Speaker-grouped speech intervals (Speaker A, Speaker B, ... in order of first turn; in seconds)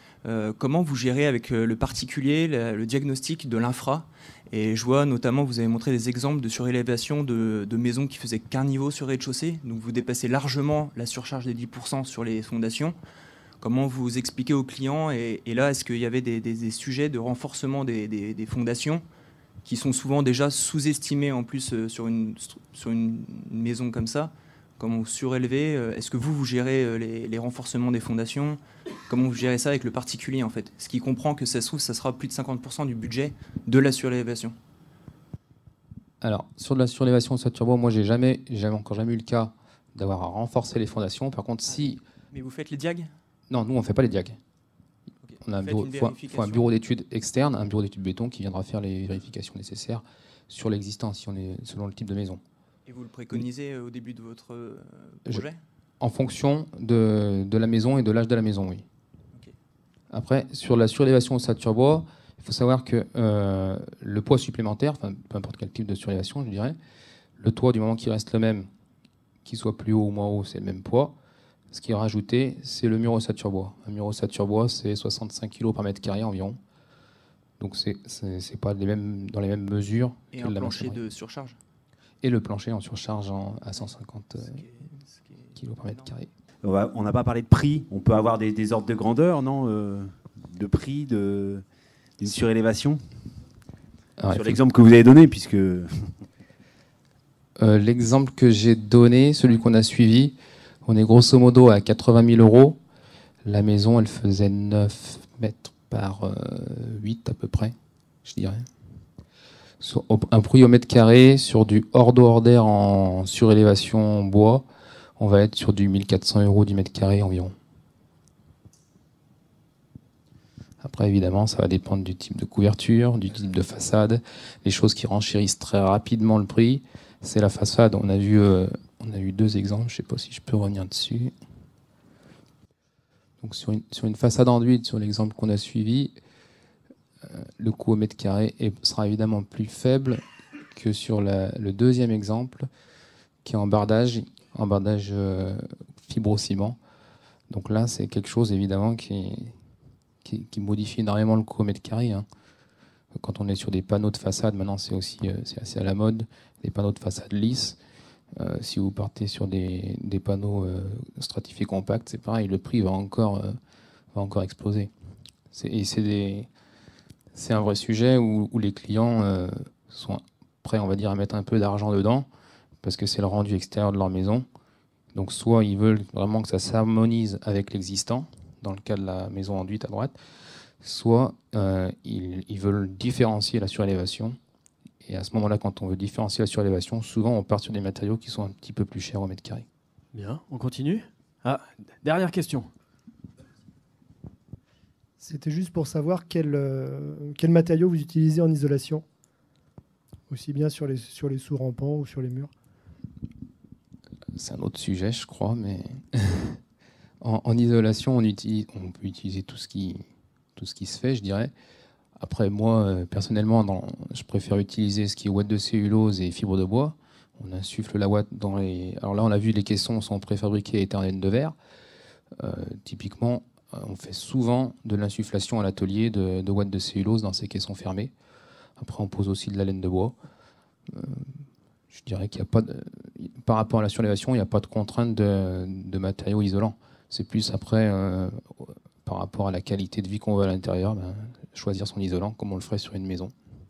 Speaker A: 0.2-12.9, 13.6-19.0, 19.6-34.5, 41.7-43.1, 45.2-46.7, 52.9-55.6, 80.3-81.6, 83.8-86.1
Speaker B: 36.2-42.0, 43.5-44.4, 45.4-52.4, 56.0-58.8, 60.1-66.8, 67.4-68.7, 69.4-71.2, 71.7-76.6, 77.6-81.0, 82.2-84.6, 85.5-86.3, 94.2-94.6, 97.6-102.8, 103.4-107.7, 108.2-108.6, 109.8-114.7, 115.2-117.5, 120.8-131.3, 133.4-136.1, 137.2-142.7, 143.4-146.8, 147.5-149.5, 150.2-152.2, 153.2-157.8, 158.3-163.6, 164.1-164.9, 165.5-166.5, 167.3-172.3, 172.8-174.4, 175.1-180.1, 180.8-184.3, 185.0-189.6, 204.3-206.6, 207.2-210.0, 210.6-211.5, 212.2-221.5, 222.4-228.1, 228.8-230.1, 230.9-231.3, 231.9-243.3
Speaker C: 86.7-89.8, 90.6-91.3, 92.2-92.9, 94.3-95.7
Speaker D: 190.1-192.7
Speaker E: 195.2-199.1, 200.3-202.5